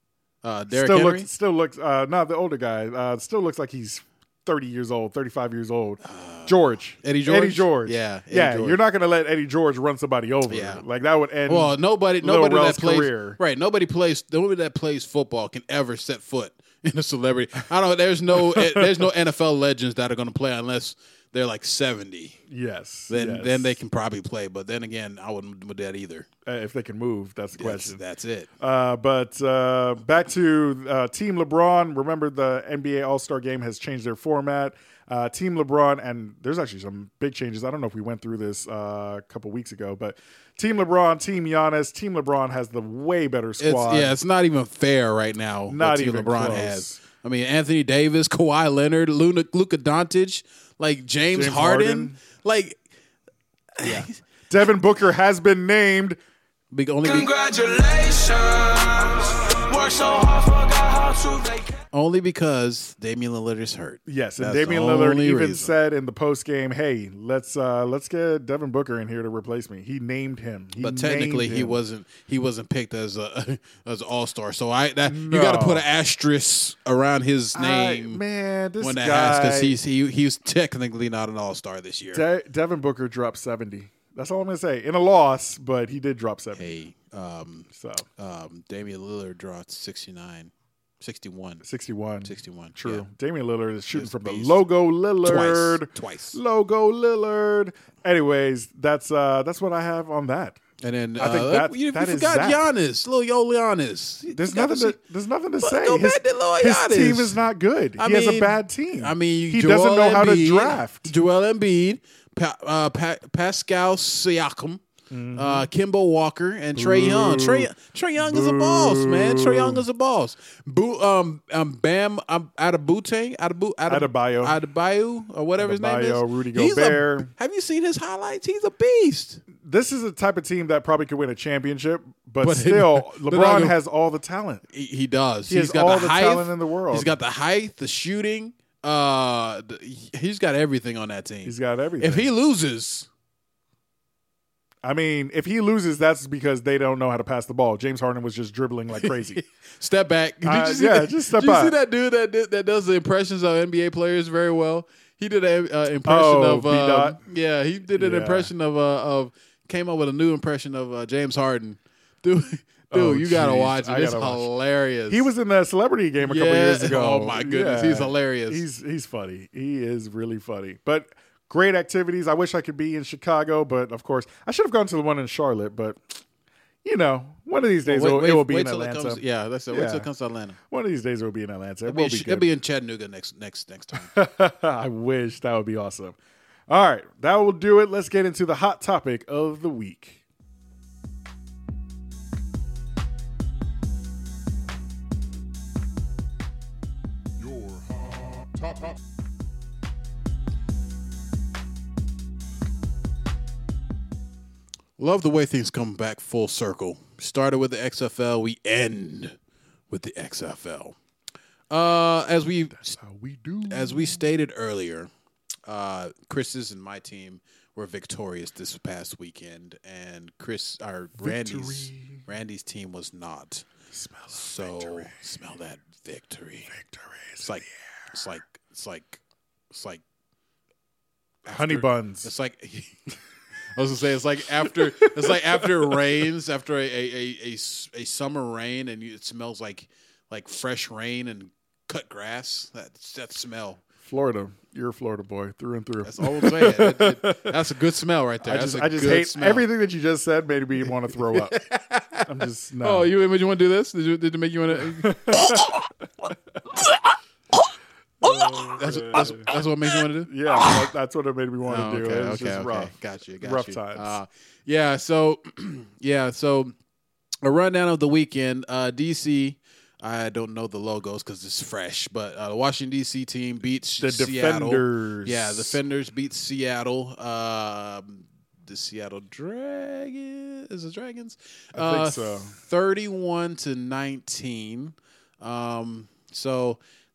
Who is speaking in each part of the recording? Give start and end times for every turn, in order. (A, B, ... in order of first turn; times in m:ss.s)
0:00.4-0:01.3 A
0:00.7-0:13.4 B
0:06.0-0:08.8 A
0:10.5-0:10.8 A
0:11.5-0:22.4 A
0:18.3-0:19.1 B
0:22.5-0:23.8 B
0:23.1-0:26.3 A
0:26.5-0:28.0 B
0:27.6-0:28.5 A
0:28.6-0:44.2 B
0:43.6-0:52.8 A
0:45.7-0:47.0 B
0:51.3-0:52.2 B
0:53.8-0:54.2 A
0:53.8-0:56.2 B
0:56.7-0:57.3 A
0:57.0-1:01.8 C
1:01.9-1:05.7 A
1:04.1-1:11.8 B
1:10.8-1:18.2 A
1:15.0-1:15.9 B
1:17.5-1:19.8 B
1:18.8-1:22.2 A
1:22.1-1:26.7 B
1:26.6-1:31.6 A
1:27.7-1:28.1 B
1:31.6-1:40.6 B
1:32.2-1:33.1 A
1:33.9-1:34.7 A
1:35.2-1:36.4 A
1:40.8-1:45.0 A
1:41.2-1:42.6 B
1:44.3-1:51.1 B
1:45.6-1:47.4 A
1:48.0-1:54.8 A
1:55.1-1:55.7 B
1:55.4-2:09.4 A
1:56.8-1:59.8 B
2:03.9-2:04.6 B
2:05.6-2:07.3 B
2:09.6-2:14.6 B
2:12.4-2:13.8 A
2:14.7-2:23.1 A
2:15.5-2:17.2 B
2:21.4-2:22.3 B
2:24.8-2:29.4 B
2:29.0-2:45.3 A
2:30.4-2:31.8 B
2:36.1-2:37.2 B
2:38.0-2:38.5 B
2:42.9-2:44.5 B
2:45.1-2:56.0 B
2:46.2-2:48.6 A
2:56.8-3:00.1 B
2:57.9-3:00.6 A
3:00.7-3:02.5 B
3:01.9-3:04.1 A
3:04.0-3:06.2 B
3:06.7-3:10.2 B
3:25.0-3:29.4 A
3:29.9-3:31.0 A
3:31.7-3:33.0 A
3:32.8-3:34.2 B
3:33.7-3:35.1 A
3:35.7-3:43.7 A
3:41.2-3:42.2 B
3:43.9-3:45.2 B
3:44.3-3:46.7 A
3:46.7-3:47.7 B
3:47.4-3:49.2 A
3:49.7-3:50.0 A
3:51.4-3:53.0 A
3:51.5-3:52.3 B
3:53.7-4:03.8 A
3:54.6-3:55.9 B
4:04.0-4:07.6 B
4:06.0-4:09.7 A
4:08.4-4:11.6 B
4:11.2-4:15.6 A
4:12.2-4:13.1 B
4:14.8-4:15.8 B
4:18.2-4:19.5 B
4:18.6-4:20.7 A
4:20.3-4:24.2 B
4:21.6-4:26.7 A
4:27.4-4:46.8 A
4:34.0-4:35.8 B
4:41.8-4:42.6 B